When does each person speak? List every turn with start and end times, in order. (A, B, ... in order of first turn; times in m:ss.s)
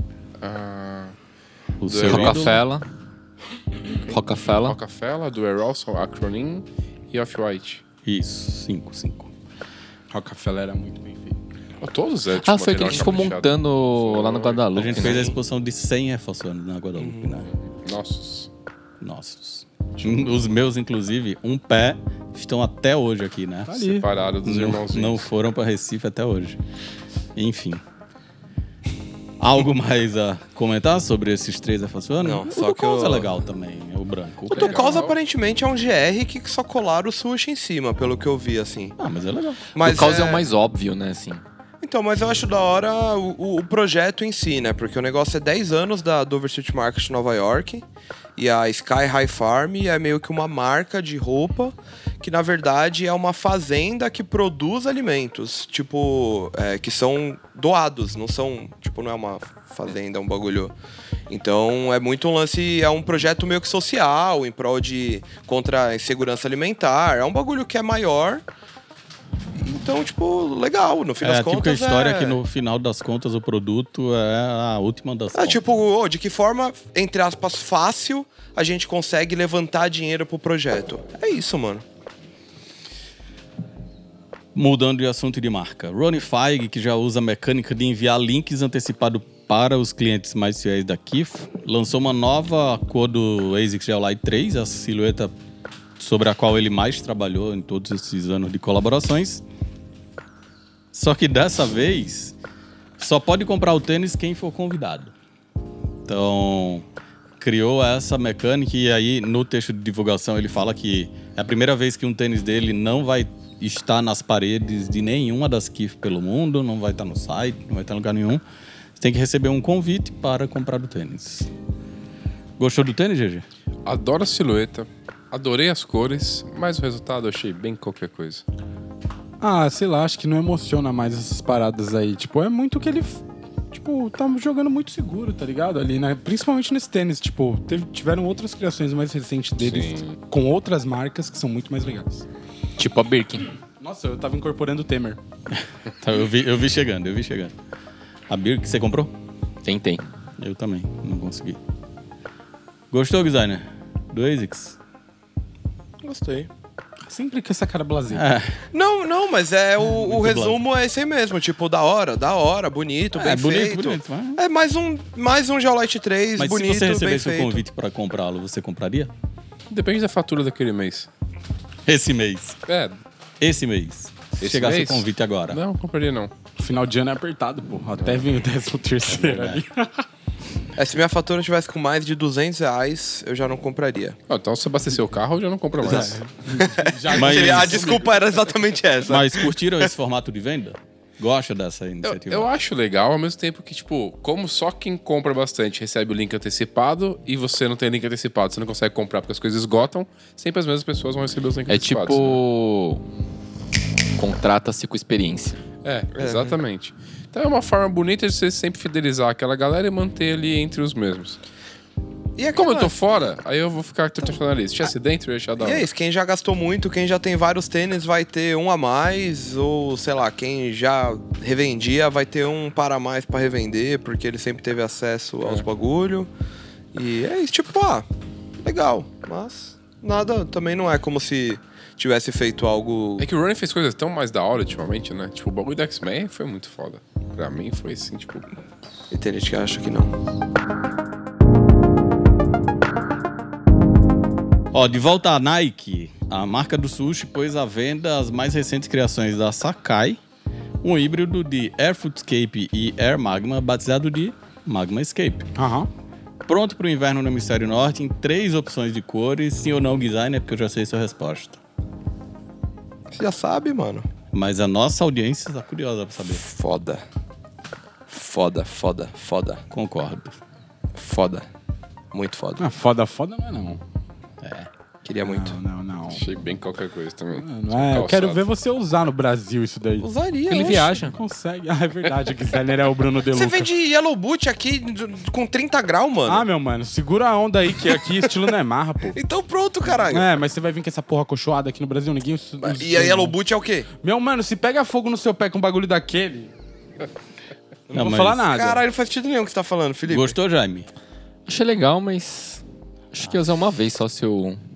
0:00.4-0:01.1 A
0:01.8-0:02.6 B
0:01.9-0:02.6 A
0:01.9-0:02.9 C
0:04.1-0:04.8 C
0:04.1-0:07.8 A
0:08.0-0:09.3 B
0:10.1-0:11.4 D
0:11.8-0:15.0 A
0:12.4-0:15.3 C
0:14.8-0:17.5 B
0:15.0-0:15.3 E
0:17.0-0:17.3 E
0:17.5-0:18.5 A
0:19.0-0:26.6 B
0:23.7-0:24.0 D
0:23.9-0:25.3 A
0:27.4-0:27.8 B
0:29.4-0:35.0 B
0:32.2-0:33.3 E
0:34.5-0:39.0 E
0:34.5-0:35.2 A
0:39.0-0:39.8 B
0:39.8-0:40.4 E
0:39.8-0:41.4 C
0:41.8-0:47.8 E
0:48.4-1:00.7 E
1:01.3-1:08.4 E
1:09.6-1:12.4 E
1:11.2-1:15.6 B
1:15.4-1:21.8 E
1:24.6-1:35.3 B
1:36.0-1:39.4 B
1:40.9-1:42.4 B
1:43.0-1:45.1 B
1:46.1-1:46.8 B
1:47.4-1:58.4 B
1:59.0-2:01.5 B
2:02.6-2:03.4 B
2:03.8-2:08.4 A
2:09.4-2:22.2 D
2:19.6-2:20.2 A
2:22.8-2:23.5 C
2:23.8-2:25.2 D
2:25.5-2:27.5 B
2:28.3-2:29.1 B
2:29.6-2:30.0 C
2:30.4-2:31.6 B
2:32.9-2:34.8 B
2:36.0-2:36.5 E
2:37.1-2:38.3 D
2:38.1-2:38.6 B
2:38.7-2:47.6 E
2:39.8-2:40.6 B
2:43.1-2:44.4 B
2:46.4-2:49.1 B
2:49.7-2:51.1 A
2:51.9-2:52.6 B
2:52.7-2:53.0 A
2:53.4-2:55.6 B
2:54.4-2:56.3 A
2:56.6-3:00.0 D
2:59.1-2:59.6 B
3:00.8-3:04.2 E
3:04.3-3:06.2 A
3:05.9-3:08.2 D
3:06.6-3:09.6 E
3:07.1-3:07.9 B
3:09.1-3:12.5 B
3:12.0-3:22.4 A
3:21.7-3:23.0 C
3:24.2-3:25.6 C
3:25.8-3:31.4 A
3:26.2-3:26.6 E
3:32.4-3:33.0 E
3:32.5-3:35.9 A
3:35.6-3:46.3 E
3:46.9-3:48.1 E
3:48.6-3:53.3 E
3:53.2-3:58.5 A
3:59.1-4:00.1 E
4:04.7-4:10.2 B
4:10.8-4:15.5 B
4:15.6-4:15.9 D
4:16.5-4:21.6 B
4:23.1-4:24.1 E
4:24.3-4:26.4 B
4:26.3-4:27.0 E
4:28.1-4:29.6 E
4:29.7-4:30.4 B
4:31.0-4:31.5 E
4:32.1-4:32.6 E
4:32.6-4:33.8 D
4:34.4-4:34.7 B
4:35.0-4:35.6 E
4:35.2-4:36.2 D
4:36.1-4:38.4 A
4:37.4-4:43.7 D
4:40.0-4:41.0 E
4:40.5-4:41.1 C
4:43.3-4:46.4 E
4:46.3-4:49.2 D
4:49.1-4:50.3 E
4:50.1-4:53.4 D
4:52.6-4:53.9 E
4:54.0-4:56.5 D
4:57.9-4:58.8 D
4:57.9-4:58.4 B
4:57.9-5:00.4 E
5:00.1-5:00.9 B
5:01.4-5:04.6 C